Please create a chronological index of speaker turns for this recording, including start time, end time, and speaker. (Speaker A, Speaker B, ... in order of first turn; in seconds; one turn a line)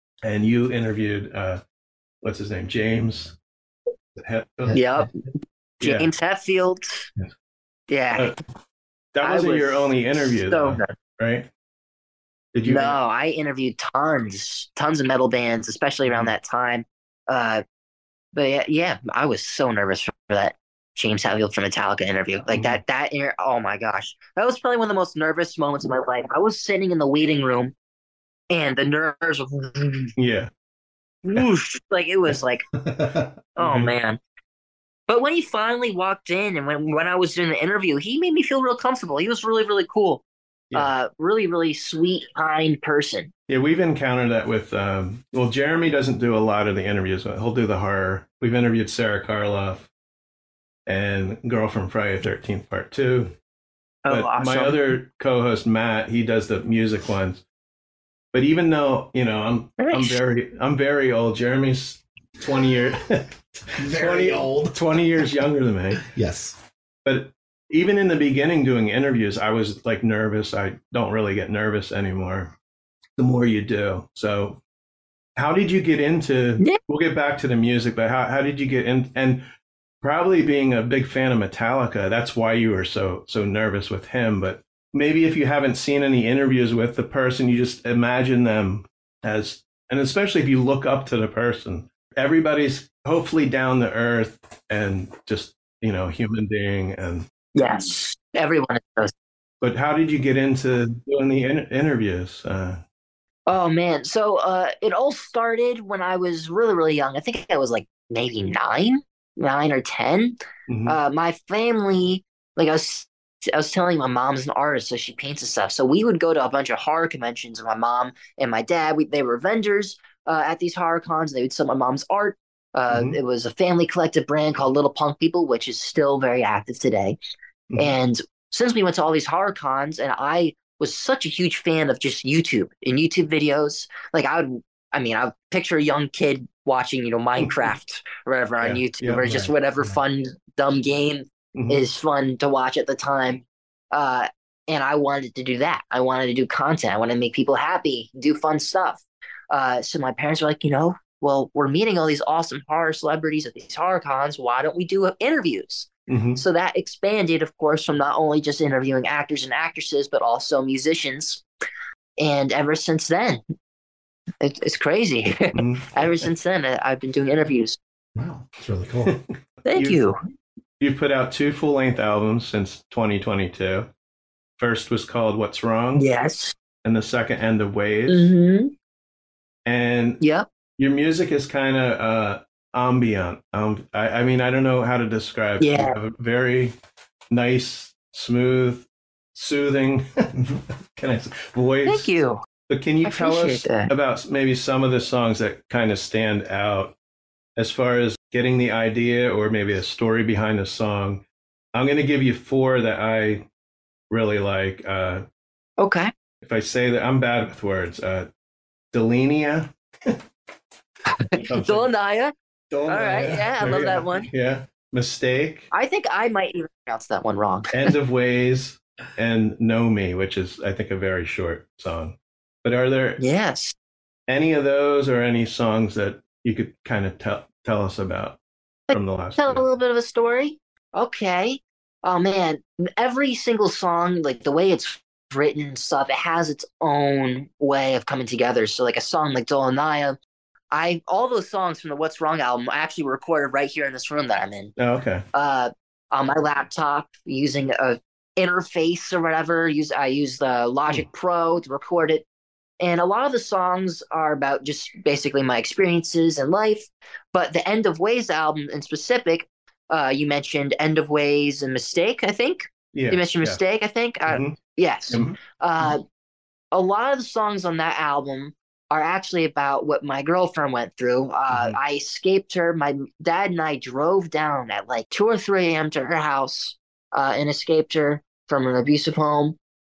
Speaker A: 0.2-1.6
Speaker A: 2.2-3.4
Speaker A: 4.2-4.8
Speaker B: 4.6-5.0
Speaker C: 4.7-5.1
Speaker A: 5.8-6.1
Speaker C: 5.8-7.1
Speaker C: 7.9-8.3
Speaker A: 9.1-11.5
Speaker C: 9.2-10.9
Speaker A: 12.5-13.0
Speaker C: 12.7-17.6
Speaker C: 18.3-27.7
Speaker A: 22.5-22.8
Speaker C: 28.5-30.1
Speaker A: 30.2-30.5
Speaker C: 31.2-32.6
Speaker B: 32.8-33.4
Speaker C: 33.6-34.2
Speaker A: 33.6-33.9
Speaker C: 35.1-43.3
Speaker A: 43.5-49.9
Speaker A: 50.9-53.3
Speaker C: 54.0-54.9
Speaker A: 54.1-57.4
Speaker A: 58.3-66.1
Speaker C: 59.8-60.2
Speaker B: 63.8-65.0
Speaker B: 66.0-66.6
Speaker A: 67.0-72.5
Speaker A: 73.2-74.6
Speaker A: 75.4-79.5
Speaker A: 80.0-97.3
Speaker C: 97.5-99.1
Speaker A: 99.6-102.8
Speaker C: 103.5-127.2
Speaker A: 110.7-111.0
Speaker A: 122.9-123.2
Speaker C: 127.8-161.4
Speaker A: 138.6-139.5
Speaker B: 139.3-140.0
Speaker A: 141.6-141.8
Speaker A: 156.1-156.4
Speaker C: 162.2-163.4
Speaker C: 164.4-167.8
Speaker A: 165.5-166.3
Speaker B: 168.2-169.2
Speaker A: 169.1-170.0
Speaker C: 169.7-170.2
Speaker A: 170.8-173.9
Speaker A: 174.6-176.1
Speaker C: 176.0-176.6
Speaker A: 176.8-178.3
Speaker C: 178.1-178.7
Speaker A: 179.7-180.2
Speaker C: 180.2-180.5
Speaker A: 180.8-186.8
Speaker C: 185.6-186.0
Speaker A: 187.3-190.4
Speaker B: 190.3-190.6
Speaker A: 190.9-192.1
Speaker C: 191.8-192.4
Speaker A: 192.7-196.9
Speaker C: 193.0-193.9
Speaker A: 197.6-201.2
Speaker A: 201.7-203.5
Speaker A: 204.1-205.2
Speaker C: 205.8-206.1
Speaker A: 206.4-208.3
Speaker A: 208.9-210.2
Speaker C: 211.2-212.3
Speaker A: 211.3-211.9
Speaker A: 212.7-215.7
Speaker C: 212.9-214.3
Speaker C: 215.7-217.9
Speaker A: 217.7-223.2
Speaker C: 223.2-223.8
Speaker A: 224.3-228.4
Speaker C: 228.9-240.2
Speaker A: 228.9-229.7
Speaker C: 240.7-244.7
Speaker A: 244.8-245.2
Speaker C: 245.3-252.2
Speaker C: 252.8-266.0
Speaker A: 262.9-263.6
Speaker A: 264.3-264.6
Speaker C: 266.7-279.6
Speaker A: 271.5-271.8